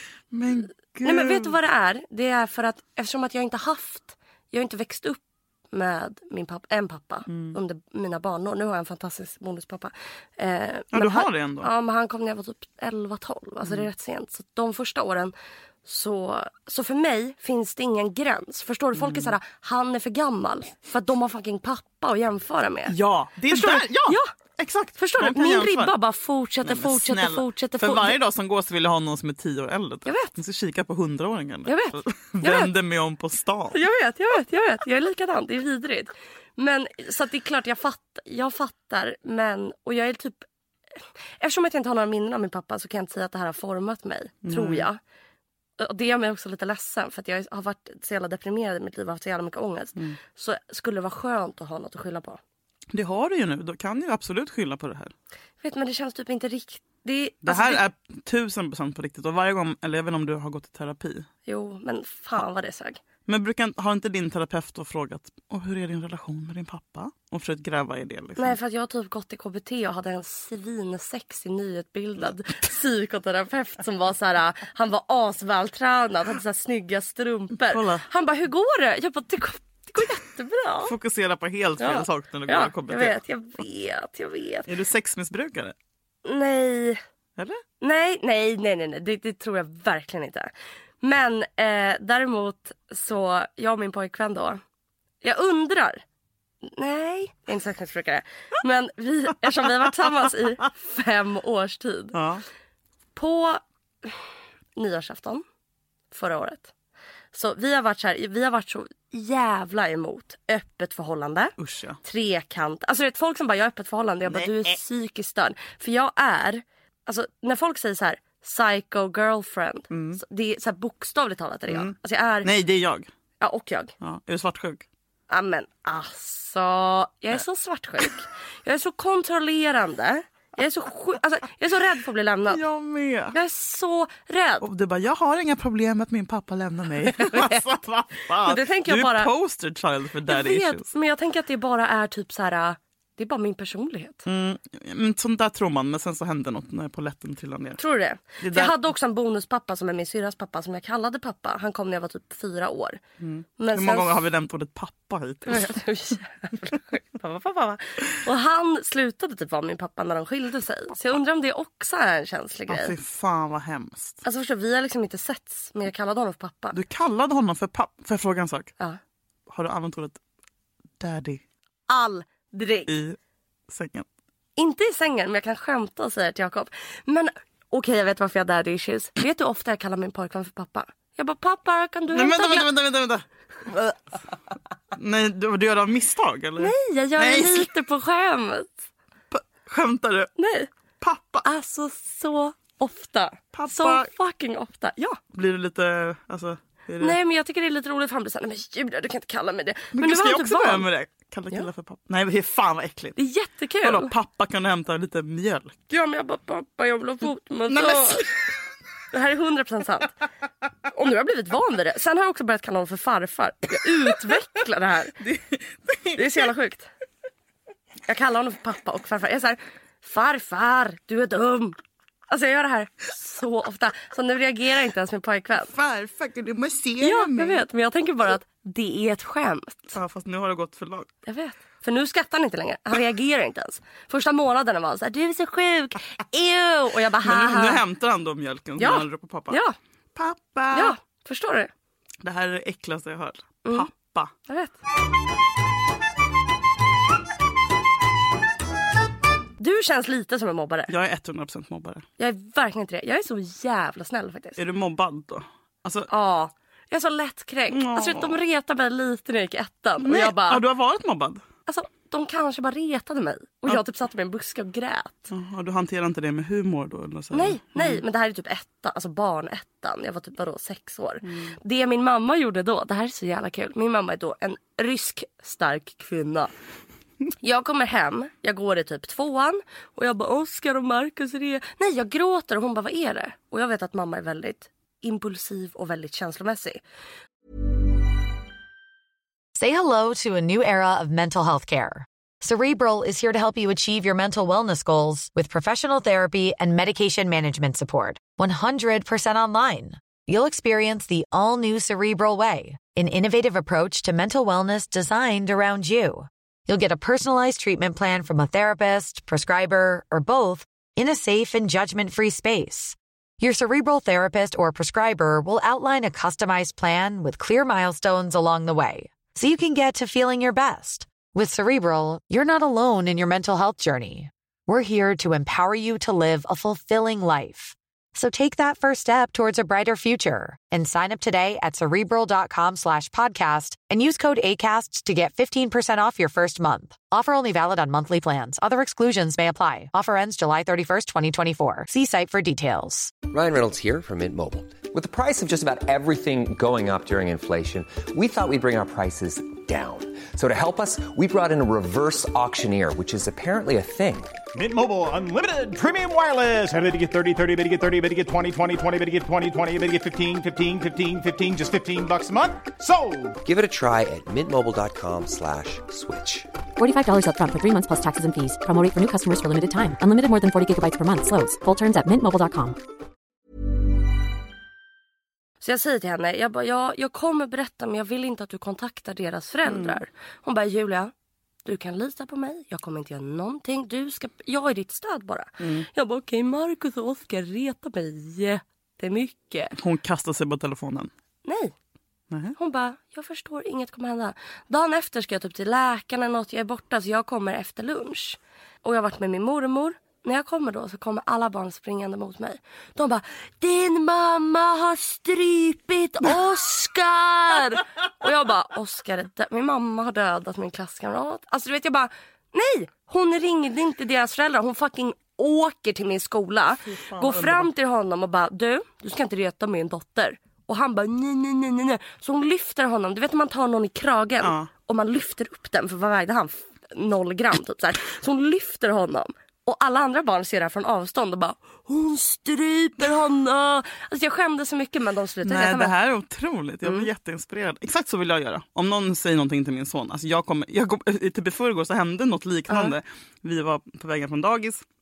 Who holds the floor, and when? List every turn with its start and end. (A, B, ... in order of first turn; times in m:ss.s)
0:00.3-0:01.6 A
0:01.0-0:15.3 B
0:07.3-0:07.6 A
0:10.9-0:11.7 A
0:15.8-0:22.9 B
0:19.0-0:19.3 A
0:22.9-0:25.9 A
0:23.5-0:24.3 B
0:25.0-0:28.2 B
0:26.6-0:33.8 A
0:30.0-0:30.3 B
0:31.6-0:32.7 B
0:33.7-0:40.4 B
0:41.4-0:45.0 B
0:44.4-0:44.8 A
0:45.8-0:52.4 B
0:52.9-0:55.1 A
0:55.6-0:57.8 B
0:57.4-1:01.3 A
1:01.4-1:03.0 B
1:03.2-1:08.6 A
1:08.4-1:20.9 B
1:17.6-1:18.0 A
1:20.8-1:23.2 A
1:21.8-1:24.7 B
1:24.7-1:25.7 A
1:26.2-1:27.0 B
1:27.4-1:27.6 A
1:27.8-1:34.6 B
1:35.2-1:36.0 B
1:36.6-1:42.2 B
1:42.1-1:42.4 A
1:43.1-1:44.2 B
1:44.8-1:45.4 B
1:46.1-1:46.7 B
1:47.3-2:02.5 B
1:51.6-1:52.0 A
1:54.3-1:54.8 A
1:59.9-2:00.2 A
2:01.7-2:03.1 A
2:03.4-2:03.9 B
2:04.0-2:04.8 A
2:05.3-2:12.6 B
2:12.5-2:13.3 A
2:13.3-2:14.6 B
2:14.6-2:20.9 A
2:17.1-2:17.6 B
2:18.4-2:19.3 B
2:20.3-2:24.2 B
2:24.2-2:27.8 A
2:27.8-2:33.0 B
2:28.4-2:28.8 A
2:33.2-2:35.7 A
2:33.6-2:34.2 B
2:35.5-2:42.9 B
2:42.7-2:44.2 A
2:44.2-2:46.8 B
2:46.7-2:48.7 A
2:49.5-2:50.2 A
2:51.0-2:51.4 A
2:51.9-2:52.9 B
2:52.9-2:53.2 A
2:53.7-2:54.0 A
2:54.6-3:02.7 B
3:02.1-3:04.2 A
3:04.9-3:07.7 A
3:06.6-3:08.8 B
3:09.3-3:10.3 A
3:10.4-3:10.7 B
3:11.0-3:11.4 A
3:11.4-3:15.2 B
3:13.5-3:14.1 A
3:15.3-3:17.2 A
3:17.0-3:20.8 B
3:19.9-3:23.2 A
3:23.2-3:24.1 B
3:23.8-3:25.8 A
3:25.9-3:28.3 B
3:27.7-3:28.3 A
3:29.1-3:30.1 B
3:30.9-3:35.2 B
3:35.2-3:36.2 A
3:36.1-3:36.9 B
3:38.1-3:41.8 B
3:42.3-3:45.7 B
3:45.7-3:47.6 A
3:47.0-3:49.9 B
3:49.9-3:51.1 A
3:51.2-3:57.8 B
3:57.2-3:59.6 A
3:58.8-3:59.7 B
4:00.1-4:00.9 A
4:00.7-4:01.7 B
4:02.2-4:04.3 A
4:04.5-4:04.8 B
4:09.6-4:10.9 B
4:10.9-4:12.0 A
4:12.2-4:14.6 B
4:14.6-4:16.1 A
4:16.1-4:20.6 B
4:17.7-4:18.4 A
4:20.0-4:21.4 A
4:21.6-4:25.3 B
4:25.3-4:28.0 A
4:27.3-4:36.5 B
4:31.3-4:31.5 A
4:37.4-4:46.8 B
4:49.5-5:43.1 C
5:43.3-5:54.4 D
5:54.5-6:03.4 E
6:03.4-6:06.5 D
6:06.8-6:12.7 F
6:15.6-6:21.1 B
6:19.6-6:20.0 A
6:21.6-6:29.8 B
6:25.6-6:25.9 A
6:29.8-6:31.1 A
6:31.4-6:31.7 B
6:32.6-7:15.9 B
6:56.8-6:57.7 A
7:04.4-7:04.7 A
7:15.4-7:24.8 A